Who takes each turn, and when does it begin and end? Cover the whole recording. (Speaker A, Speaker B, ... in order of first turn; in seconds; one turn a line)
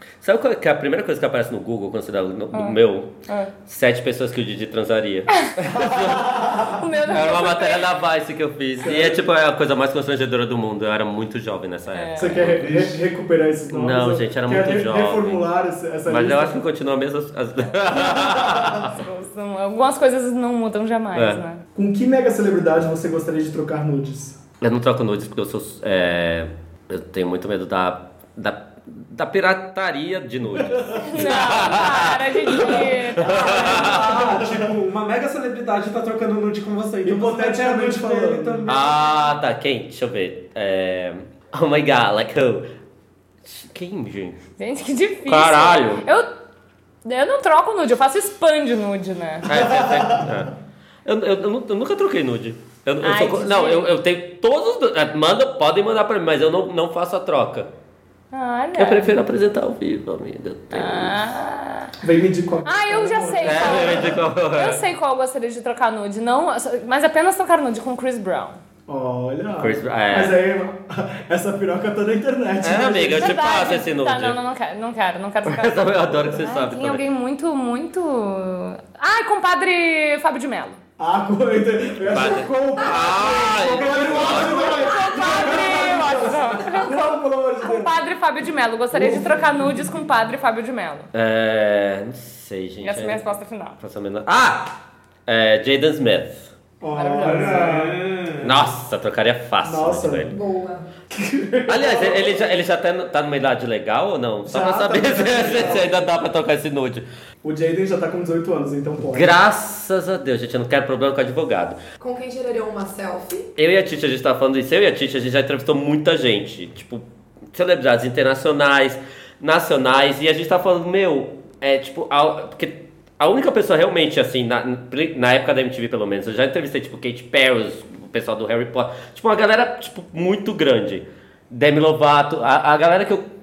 Speaker A: 0.2-3.1
Speaker B: 2.5-3.5
Speaker A: 3.6-6.5
Speaker C: 5.7-6.8
Speaker B: 6.7-7.9
Speaker A: 7.1-12.7
Speaker C: 8.8-9.2
Speaker B: 11.9-12.4
Speaker C: 12.2-16.6
Speaker D: 12.6-13.0
Speaker A: 13.7-15.5
Speaker A: 16.1-18.9
Speaker B: 17.9-21.6
Speaker A: 21.1-21.4
Speaker C: 21.7-24.4
Speaker A: 24.6-34.1
Speaker C: 30.6-31.0
Speaker B: 30.9-34.0
Speaker D: 33.5-38.9
Speaker C: 34.0-34.7
Speaker C: 37.0-38.7
Speaker A: 38.7-42.7
Speaker A: 43.4-44.4
Speaker B: 44.6-46.3
Speaker A: 45.3-46.0
Speaker B: 47.0-49.5
Speaker A: 49.5-57.7
Speaker C: 49.5-50.4
Speaker B: 53.0-53.9
Speaker B: 58.3-59.2
Speaker A: 58.8-61.2
Speaker B: 60.7-61.9
Speaker C: 62.0-64.1
Speaker B: 62.6-68.6
Speaker A: 63.4-64.8
Speaker C: 68.9-73.4
Speaker A: 69.6-70.4
Speaker A: 72.6-74.4
Speaker B: 73.2-80.8
Speaker A: 75.5-77.0
Speaker C: 81.0-87.9
Speaker A: 82.1-84.9
Speaker B: 84.3-91.1
Speaker C: 88.9-90.0
Speaker A: 91.1-93.2
Speaker B: 92.8-93.8
Speaker A: 93.8-94.8
Speaker A: 95.3-96.5
Speaker C: 96.8-98.0
Speaker B: 96.9-97.7
Speaker D: 97.2-98.7
Speaker A: 98.4-100.3
Speaker C: 99.6-100.3
Speaker E: 100.3-100.9
Speaker C: 101.1-102.4
Speaker A: 101.7-107.0
Speaker C: 104.4-106.0
Speaker C: 107.4-109.4
Speaker A: 109.1-111.8
Speaker E: 112.0-113.5
Speaker A: 113.6-133.2